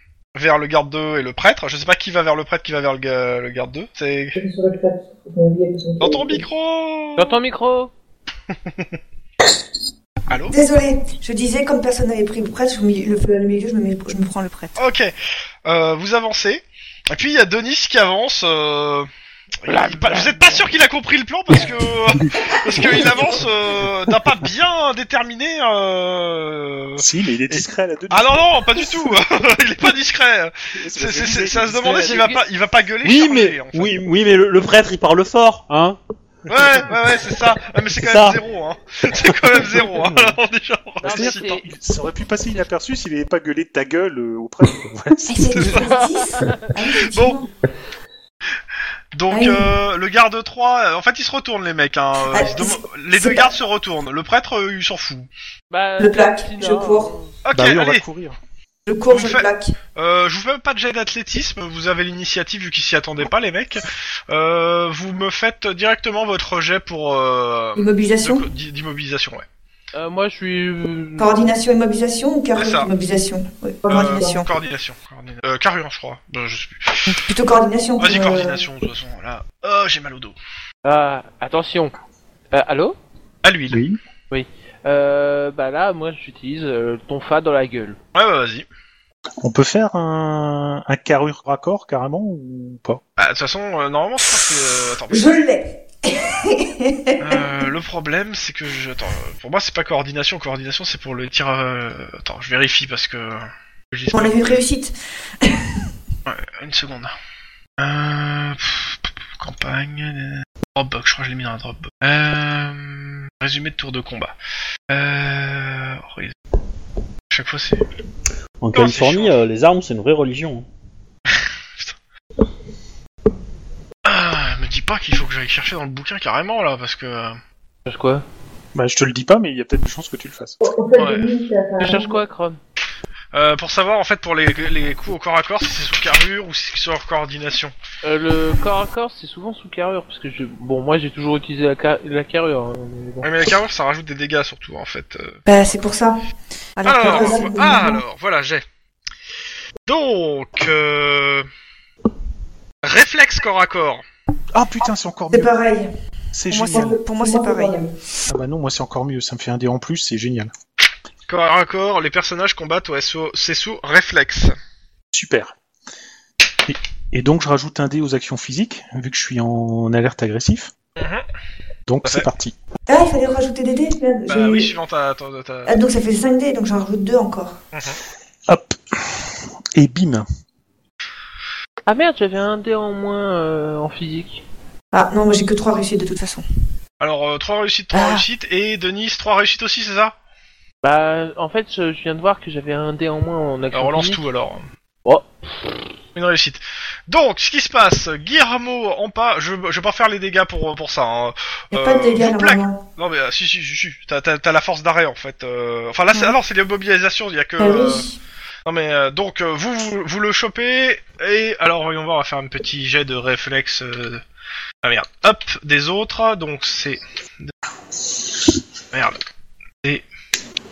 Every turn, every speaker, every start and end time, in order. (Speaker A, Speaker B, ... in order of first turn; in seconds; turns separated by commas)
Speaker A: 0.3-4.4, Speaker B: 4.3-6.4, Speaker A: 6.0-7.3, Speaker C: 7.2-7.9, Speaker A: 10.3-10.6, Speaker D: 10.5-14.8, Speaker A: 14.8-15.1, Speaker A: 15.6-19.1, Speaker A: 19.6-33.9, Speaker C: 19.7-20.7, Speaker E: 27.0-29.1, Speaker E: 30.8-32.2, Speaker C: 31.9-32.4, Speaker F: 33.0-36.0, Speaker A: 36.5-41.5, Speaker F: 38.0-38.4, Speaker F: 39.2-39.6, Speaker C: 41.0-41.7, Speaker E: 41.0-45.9, Speaker D: 45.3-47.5, Speaker C: 45.7-46.8, Speaker A: 47.1-47.4, Speaker A: 49.1-55.3, Speaker D: 49.3-49.6, Speaker D: 52.3-53.5, Speaker C: 55.7-57.4, Speaker D: 56.0-57.1, Speaker A: 57.4-58.0, Speaker E: 57.5-58.4, Speaker D: 58.9-59.7, Speaker A: 59.1-69.4, Speaker D: 67.8-68.4, Speaker C: 69.9-71.6, Speaker D: 71.2-74.5, Speaker A: 72.5-72.9, Speaker A: 73.9-77.2, Speaker B: 74.0-74.4, Speaker D: 77.1-78.6, Speaker A: 78.0-80.3, Speaker C: 80.8-81.9, Speaker C: 82.5-83.0, Speaker A: 83.4-83.8, Speaker E: 83.7-84.0, Speaker C: 84.3-88.0, Speaker A: 88.1-88.7, Speaker E: 89.4-93.0, Speaker A: 93.2-95.4, Speaker D: 95.1-97.4, Speaker A: 97.2-104.6, Speaker D: 104.1-105.7, Speaker A: 106.2-107.1, Speaker A: 107.8-114.3, Speaker A: 114.9-116.3, Speaker A: 117.3-117.8, Speaker F: 118.6-120.7, Speaker A: 118.7-119.3, Speaker A: 121.3-121.9, Speaker A: 124.0-127.4, Speaker C: 127.8-128.2, Speaker E: 128.7-130.6, Speaker B: 130.6-132.2, Speaker A: 130.9-131.3, Speaker C: 131.8-132.6, Speaker A: 133.3-137.7, Speaker C: 138.0-143.3, Speaker A: 143.2-145.4, Speaker D: 145.5-146.2, Speaker D: 146.8-148.0, Speaker A: 146.8-148.6, Speaker B: 147.0-147.9, Speaker A: 149.8-151.5, Speaker A: 152.8-154.0, Speaker E: 154.5-155.5, Speaker D: 155.3-155.9, Speaker E: 156.3-157.0, Speaker D: 156.5-157.8, Speaker B: 156.7-157.9, Speaker E: 158.3-160.5, Speaker A: 161.3-164.6, Speaker E: 165.1-165.5, Speaker E: 166.7-170.7, Speaker A: 171.0-171.2, Speaker E: 171.9-172.5, Speaker D: 172.9-174.7, Speaker A: 174.3-175.8, Speaker D: 175.7-177.6, Speaker A: 177.7-178.0, Speaker E: 178.5-180.2, Speaker C: 181.9-184.4, Speaker D: 184.9-186.4, Speaker A: 187.0-190.1, Speaker D: 187.9-188.2, Speaker C: 190.8-194.2, Speaker A: 193.7-194.7, Speaker C: 195.0-195.7, Speaker A: 196.1-208.0, Speaker D: 201.7-202.8, Speaker D: 207.6-208.2, Speaker A: 208.7-214.2, Speaker A: 214.8-217.5, Speaker A: 218.9-219.2